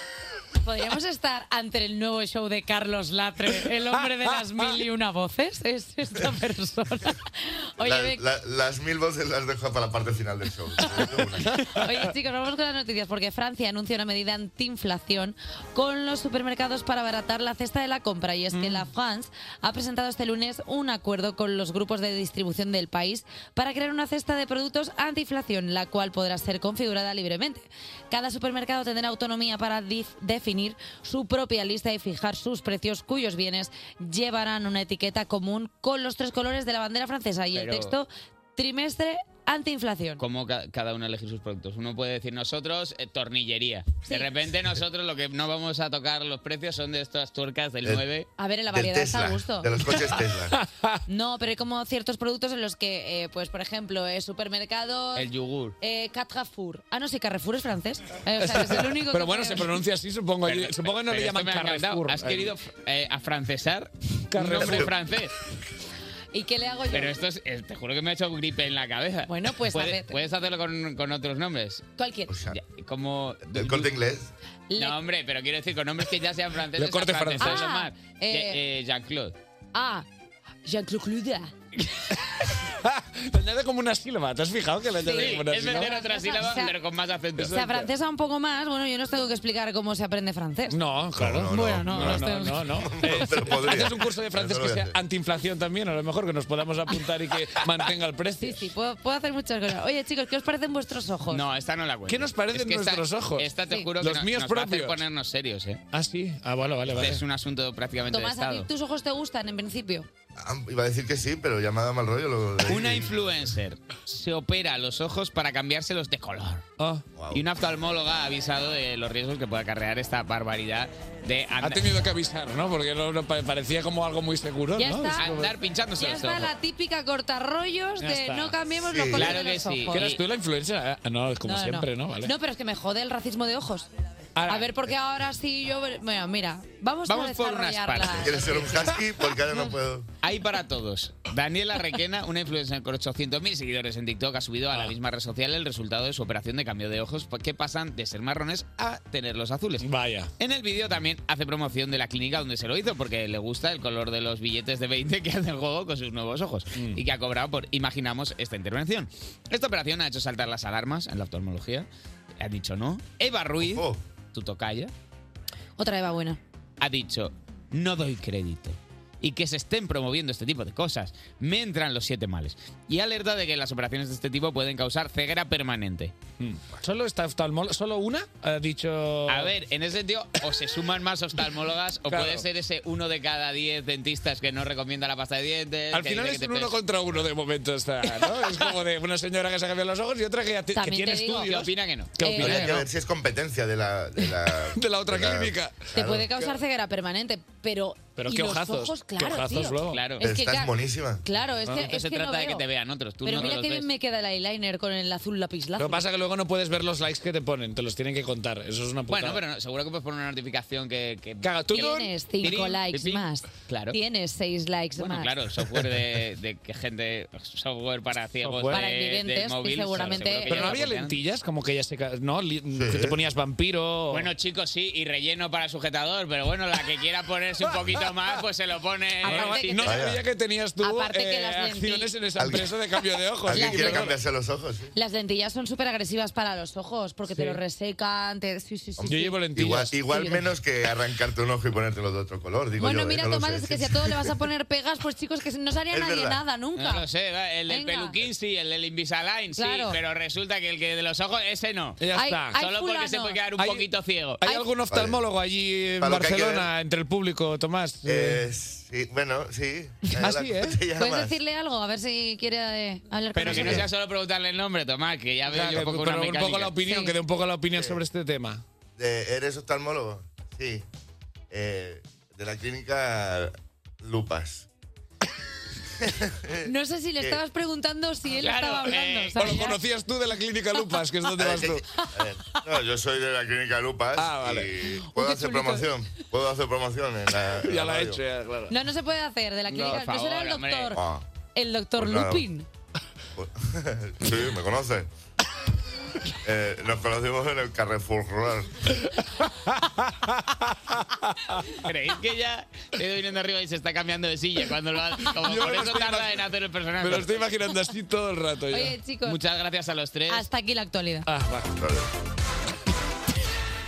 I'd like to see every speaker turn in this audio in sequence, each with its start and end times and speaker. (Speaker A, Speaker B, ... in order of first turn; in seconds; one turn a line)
Speaker A: 0.6-8.2
Speaker B: 3.5-4.0
Speaker C: 7.8-11.5
Speaker B: 11.5-12.1
Speaker A: 11.6-40.2
Speaker B: 18.5-18.9
Speaker D: 37.5-37.9
Speaker D: 40.2-48.3
Speaker A: 48.4-49.7
Speaker C: 48.7-50.6
Speaker B: 49.9-51.0
Speaker A: 51.1-55.3
Speaker D: 55.1-55.8
Speaker A: 55.8-59.8
Speaker B: 58.4-62.6
Speaker D: 60.4-65.3
Speaker B: 64.3-64.9
Speaker A: 66.3-67.1
Speaker D: 66.9-71.8
Speaker A: 69.3-70.2
Speaker A: 72.0-72.4
Speaker C: 72.3-72.6
Speaker D: 72.5-73.9
Speaker C: 73.5-74.3
Speaker A: 74.7-75.0
Speaker D: 74.8-79.3
Speaker B: 76.7-77.7
Speaker A: 77.4-78.6
Speaker A: 79.7-80.0
Speaker A: 80.6-81.5
Speaker B: 82.8-86.0
Speaker A: 85.0-86.7
Speaker D: 85.1-87.6
Speaker B: 87.4-87.9
Speaker A: 87.5-90.8
Speaker B: 90.7-98.7
Speaker C: 91.2-94.9
Speaker A: 91.5-92.7
Speaker A: 98.4-101.4
Speaker D: 101.3-105.8
Speaker B: 102.1-105.0
Speaker B: 105.9-107.2
Speaker D: 106.9-108.7
Speaker A: 108.1-110.1
Speaker C: 110.4-113.1
Speaker D: 112.7-116.6
Speaker B: 116.8-117.0
Speaker C: 117.2-117.4
Speaker D: 117.3-121.9
Speaker B: 121.6-125.5
Speaker A: 124.8-125.4
Speaker D: 125.2-126.5
Speaker A: 126.0-130.1
Speaker B: 128.0-128.7
Speaker C: 128.9-129.3
Speaker D: 129.2-130.2
Speaker B: 129.9-132.3
Speaker A: 131.4-133.9
Speaker B: 134.4-134.9
Speaker A: 134.5-138.9
Speaker D: 137.1-138.5
Speaker C: 138.2-140.1
Speaker D: 140.2-149.8
Speaker B: 149.8-150.3
Speaker D: 150.4-161.9
Speaker B: 156.8-157.0
Speaker D: 162.4-164.9
Speaker C: 163.6-164.0
Speaker A: 165.8-166.4
Speaker D: 166.8-176.1
Speaker B: 176.4-179.5
Speaker D: 179.3-186.8
Speaker B: 182.1-182.4
Speaker B: 185.9-192.9
Speaker A: 190.7-191.5
Speaker D: 191.4-192.7
Speaker A: 192.2-192.7
Speaker C: 192.4-196.3
Speaker B: 194.3-196.5
Speaker A: 195.9-202.6
Speaker B: 198.2-200.1
Speaker D: 199.9-200.2
Speaker C: 200.2-201.2
Speaker D: 201.8-203.9
Speaker A: 203.2-206.1
Speaker B: 205.8-209.4
Speaker D: 209.1-211.6
Speaker B: 211.4-212.7
Speaker A: 211.7-215.3
Speaker D: 212.4-214.0
Speaker D: 215.0-221.2
Speaker B: 218.4-218.9
Speaker A: 218.7-220.8
Speaker B: 219.9-224.3
Speaker C: 222.7-223.2
Speaker D: 224.1-229.9
Speaker A: 229.2-229.9
Speaker B: 229.2-234.2
Speaker C: 229.9-230.2
Speaker A: 230.8-232.1
Speaker C: 232.4-232.7
Speaker C: 233.4-234.9
Speaker A: 233.5-234.1
Speaker A: 234.9-239.4
Speaker B: 237.3-237.6
Speaker C: 239.0-244.3
Speaker B: 239.1-240.3
Speaker A: 240.1-240.4
Speaker A: 242.8-247.1
Speaker C: 245.9-246.4
Speaker D: 246.8-252.0
Speaker A: 247.7-248.2
Speaker A: 249.6-250.0
Speaker B: 252.0-252.6
Speaker A: 252.1-253.4
Speaker D: 252.6-254.4
Speaker B: 253.6-258.4
Speaker C: 254.8-255.2
Speaker C: 256.0-256.7
Speaker C: 258.1-261.4
Speaker B: 260.1-260.8
Speaker A: 261.0-263.8
Speaker D: 263.3-266.8
Speaker C: 263.5-263.8
Speaker B: 265.5-268.6
Speaker A: 266.8-267.1
Speaker C: 269.0-270.9
Speaker C: 271.5-274.7
Speaker C: 276.0-276.7
Speaker A: 276.6-279.8
Speaker D: 278.4-279.6
Speaker B: 279.4-281.8
Speaker C: 281.4-288.2
Speaker B: 284.1-284.8
Speaker A: 285.1-285.9
Speaker B: 287.6-288.7
Speaker A: 288.7-291.0
Speaker D: 289.7-291.0
Speaker C: 290.9-291.2
Speaker A: 291.6-292.7
Speaker C: 292.0-292.4
Speaker C: 293.4-295.1
Speaker C: 296.4-298.7
Speaker B: 299.4-301.6
Speaker D: 301.9-307.4
Speaker B: 305.4-306.4
Speaker B: 307.0-308.9
Speaker A: 308.7-309.4
Speaker D: 309.2-310.4
Speaker A: 310.3-311.3
Speaker B: 311.3-311.8
Speaker C: 311.8-312.1